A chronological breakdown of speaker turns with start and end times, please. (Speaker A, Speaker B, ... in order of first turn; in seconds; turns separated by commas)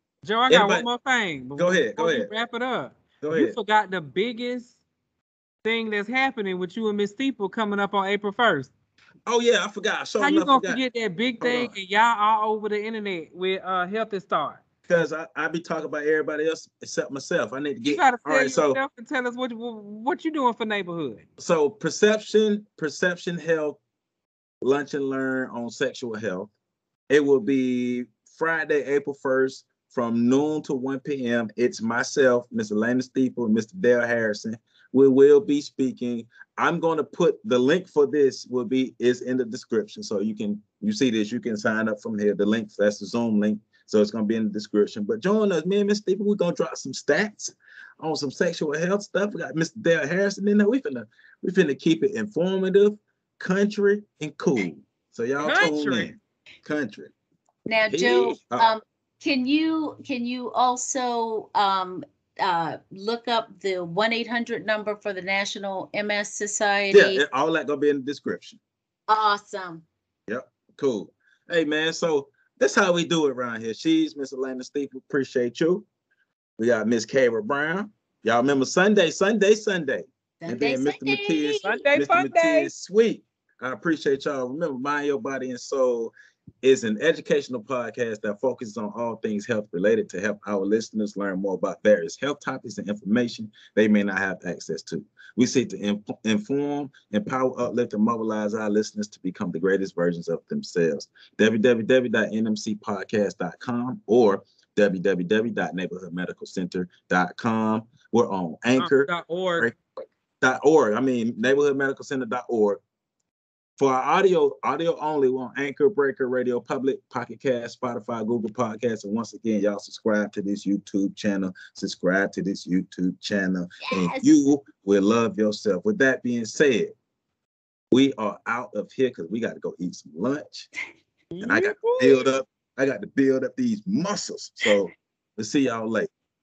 Speaker A: 0.2-4.8, Speaker B: 0.5-0.9, Speaker B: 1.6-2.3, Speaker B: 3.2-3.6, Speaker A: 5.6-8.7, Speaker B: 9.2-10.8, Speaker A: 10.2-14.6, Speaker B: 11.4-11.7, Speaker B: 14.9-18.8, Speaker A: 17.8-21.2, Speaker B: 21.4-23.8, Speaker B: 24.6-26.5, Speaker B: 27.1-57.1, Speaker A: 55.4-56.2, Speaker C: 57.6-67.2, Speaker B: 57.9-58.7, Speaker B: 66.9-68.6, Speaker C: 69.1-69.8, Speaker B: 70.3-75.8, Speaker B: 76.6-109.8, Speaker C: 80.4-81.9, Speaker A: 81.6-82.7, Speaker A: 108.8-109.7, Speaker B: 110.4-112.8, Speaker B: 113.8-126.9, Speaker C: 123.8-124.4, Speaker B: 127.9-130.7, Speaker A: 131.3-132.3, Speaker B: 131.4-136.1